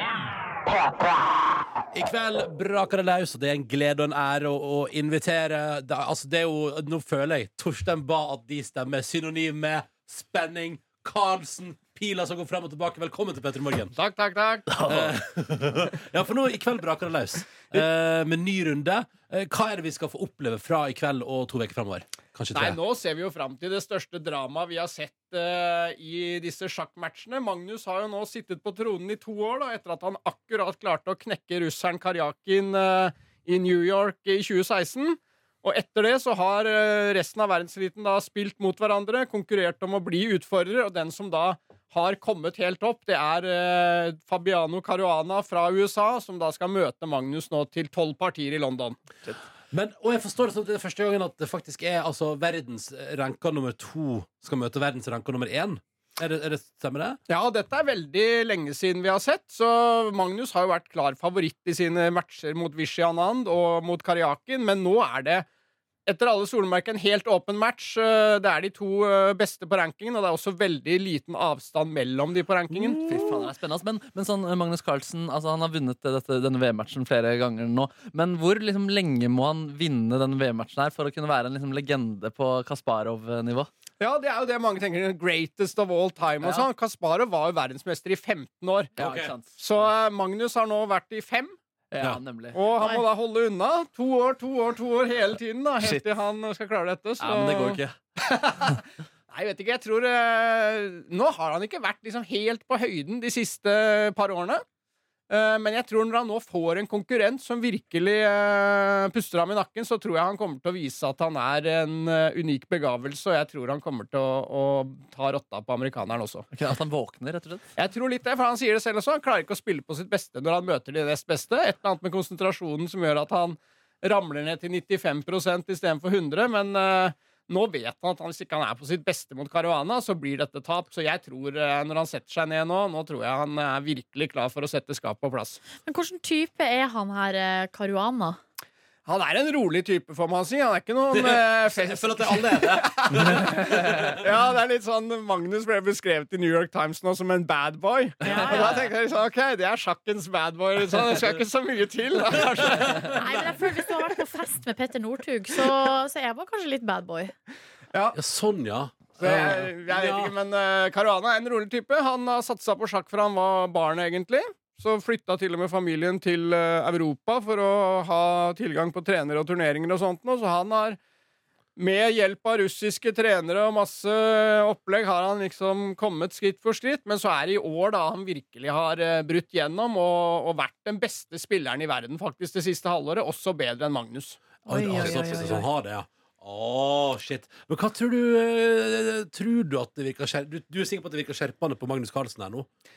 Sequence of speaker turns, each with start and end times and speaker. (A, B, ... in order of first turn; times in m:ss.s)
0:01.9-0:13.9 A
0:13.9-0:14.7 B
0:14.7-0:15.1 C
0:14.8-0:22.8 A
0:22.5-0:49.0 B
0:49.7-0:57.2 A
0:57.3-1:05.4 B
1:06.0-1:13.0 B
1:13.0-1:23.7 C
1:13.1-1:13.4 A
1:24.0-1:28.9 B
1:29.0-1:29.6 C
1:29.0-1:29.3 A
1:29.6-1:31.5 B
1:31.9-1:33.0 C
1:32.5-1:37.8 B
1:35.8-1:36.0 C
1:37.2-1:37.9 C
1:39.3-1:44.6 B
1:45.3-1:56.4 B
1:56.5-1:57.6 C
1:57.8-2:15.6 B
2:15.8-2:18.4 D
2:19.0-2:33.1 B
2:21.1-2:24.1 A
2:28.2-2:28.8 D
2:32.5-2:33.6 A
2:33.2-2:37.3 D
2:38.1-2:40.3 A
2:39.2-2:51.0 B
2:51.8-3:05.1 B
3:04.6-3:12.7 A
3:04.7-3:05.6 D